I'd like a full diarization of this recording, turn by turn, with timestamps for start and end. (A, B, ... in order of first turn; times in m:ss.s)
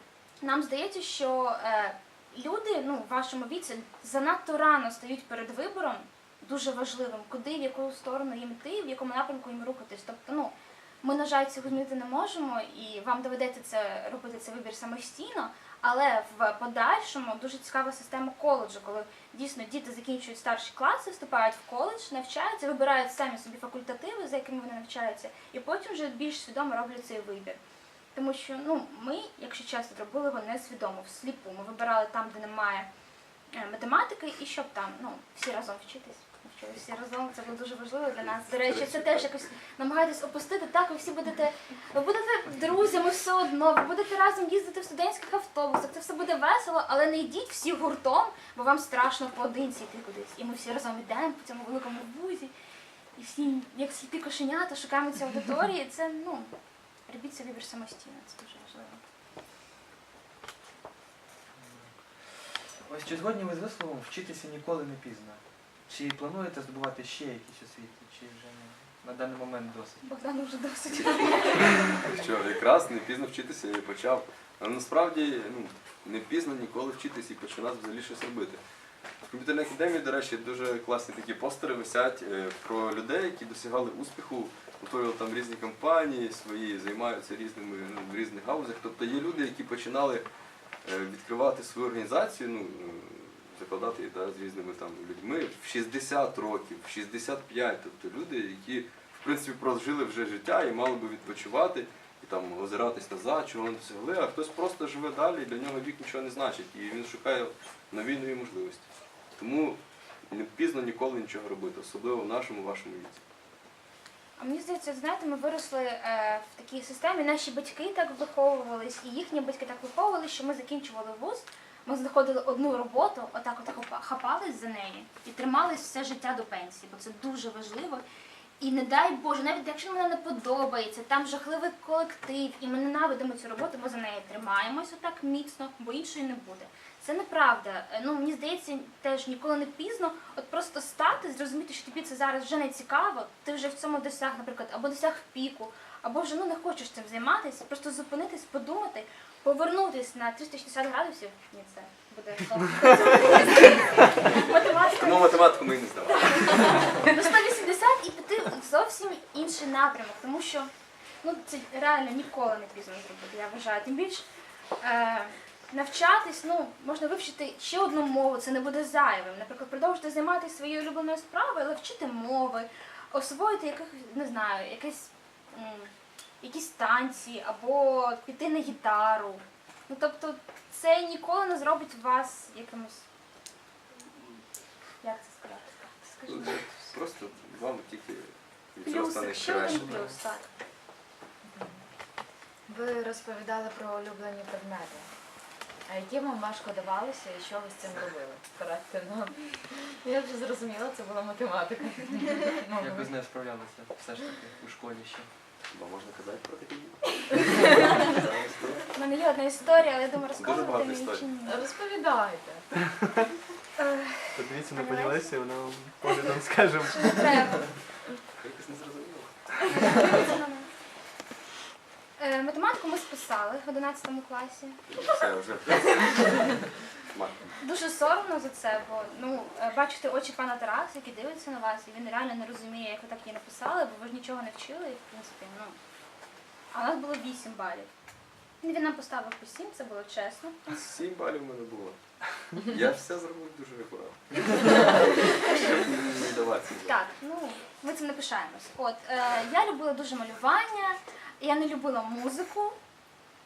0:00.4-0:27.6 A
0:28.1-0:32.9 A
0:33.5-0:52.5 A
0:38.2-0:39.5 B
0:53.2-0:56.5 A
0:57.1-0:59.0 A
1:01.6-1:10.0 C
1:10.0-1:12.0 A
1:10.9-1:18.6 B
1:19.2-1:30.2 B
1:30.8-1:53.2 B
1:54.4-2:08.0 A
2:08.6-2:35.5 A
2:34.1-2:36.8 B
2:36.1-2:40.7 A
2:41.2-2:44.3 A
2:44.8-3:03.0 A
3:05.0-3:06.7 A
3:06.3-3:09.9 B
3:08.8-3:10.5 A
3:09.7-3:10.1 C
3:11.5-3:11.8 D
3:12.7-3:15.1 D
3:15.9-3:23.1 D
3:22.8-3:25.3 C
3:25.7-3:28.9 B
3:27.6-3:27.9 A
3:28.9-3:31.6 A
3:30.4-3:31.2 B
3:31.4-3:32.7 D
3:33.8-3:35.3 A
3:34.3-3:37.7 E
3:36.9-3:37.7 A
3:38.4-3:39.9 B
3:39.7-3:40.7 A
3:42.2-3:44.8 A
3:44.9-3:46.3 B
3:47.1-3:47.5 B
3:47.6-3:55.8 A
3:56.7-3:57.9 A
3:58.6-4:00.7 A
4:00.7-4:07.0 B
4:06.9-4:12.8 A